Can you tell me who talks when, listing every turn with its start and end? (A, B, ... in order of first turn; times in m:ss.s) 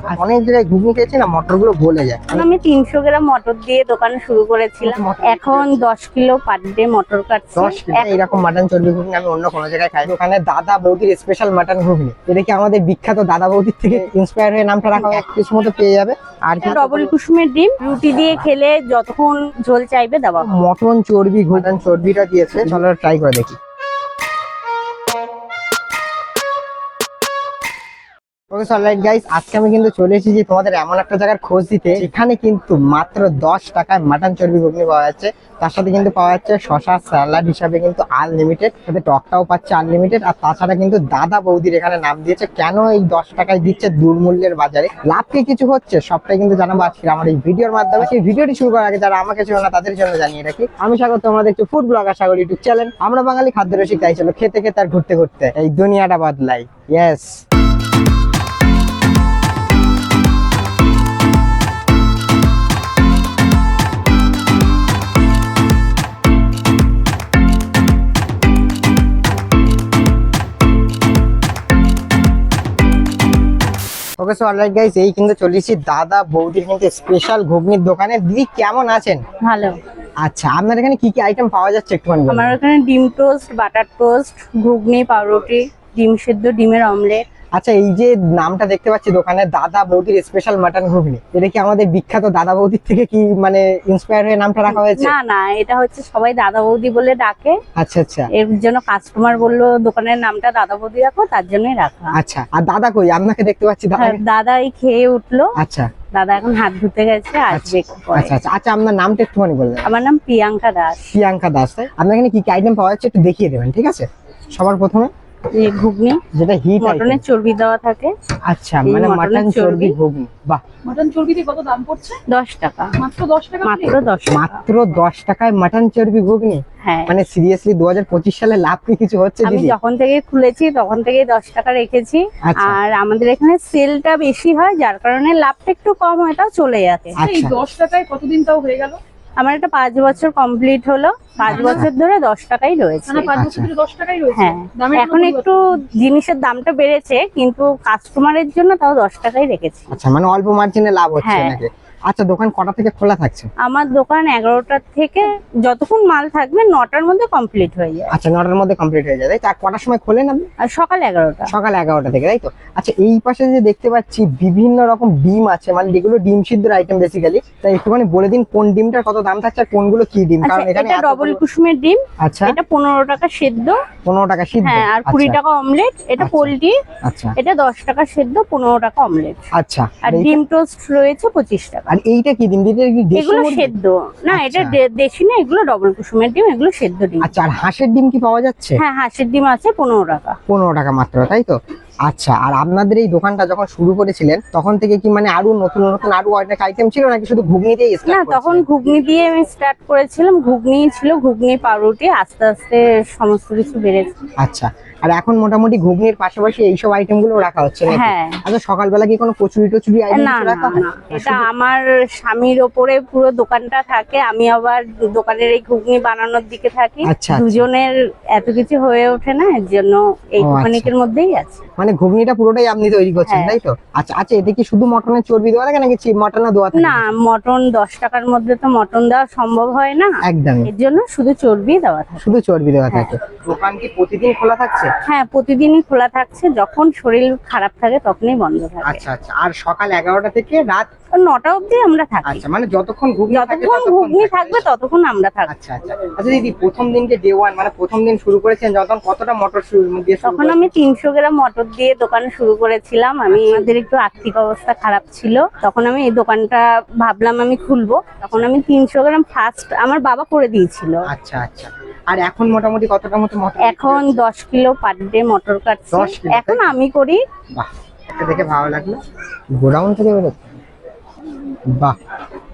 0:00.1-0:02.5 A
0:02.3-0:08.3 B
0:04.8-0:05.9 A
0:07.6-0:17.1 A
0:16.6-0:20.5 B
0:20.4-0:23.6 A
0:28.5-0:57.4 A
1:14.2-1:19.2 A
1:19.4-1:19.8 B
1:20.2-1:22.6 A
1:22.3-1:27.2 B
1:27.6-1:35.1 A
1:34.7-1:37.6 B
1:37.8-1:38.3 A
1:38.3-1:42.1 B
1:42.2-1:44.2 A
1:44.0-1:45.5 B
1:45.6-1:45.9 A
1:46.1-1:48.4 B
1:47.5-1:49.9 A
1:49.8-1:51.0 B
1:51.0-1:55.1 A
1:55.5-1:56.2 B
1:56.3-1:57.2 A
1:56.8-1:58.1 B
1:58.5-2:00.6 A
1:58.9-2:00.0 B
2:00.8-2:02.2 C
2:02.3-2:03.0 B
2:03.0-2:04.0 C
2:03.6-2:04.6 B
2:04.3-2:09.8 A
2:06.8-2:07.1 B
2:09.4-2:17.2 B
2:12.4-2:12.8 A
2:17.2-2:17.6 A
2:17.2-2:19.0 C
2:19.4-2:23.4 B
2:21.4-2:21.9 C
2:21.5-2:21.9 A
2:23.1-2:25.5 C
2:23.3-2:23.7 A
2:24.3-2:29.9 B
2:29.9-2:33.5 A
2:31.2-2:31.6 B
2:33.6-2:38.1 B
2:38.1-2:40.5 A
2:40.6-2:41.5 B
2:41.5-2:51.4 A
2:50.4-2:53.8 B
2:52.2-2:52.6 A
2:54.0-2:55.4 A
2:54.6-2:56.8 B
2:56.2-2:57.4 A
2:57.4-2:59.4 B
2:59.6-3:00.4 A
3:00.0-3:01.9 B
3:01.9-3:03.7 A
3:03.2-3:07.3 B
3:04.3-3:04.8 A
3:07.2-3:08.8 A
3:08.8-3:10.4 B
3:10.5-3:18.7 A
3:18.1-3:24.1 B
3:24.4-3:31.5 A
3:27.9-3:28.4 B
3:30.1-3:41.6 B
3:37.1-3:37.7 A
3:40.4-3:40.9 A
3:41.8-3:47.1 A
3:43.3-3:43.6 B
3:46.7-3:50.1 B
3:50.2-3:50.7 A
3:50.7-3:52.2 B
3:52.2-3:54.9 A
3:55.1-3:59.0 B
3:58.8-4:00.9 A
4:01.2-4:02.4 B
4:02.2-4:04.7 A
4:03.3-4:05.5 B
4:05.5-4:10.7 A
4:10.2-4:21.0 B
4:13.3-4:13.7 A
4:21.1-4:24.2 A
4:23.6-4:27.2 B
4:25.9-4:26.8 A
4:27.5-4:29.0 A
4:29.6-4:30.6 A
4:31.7-4:32.0 A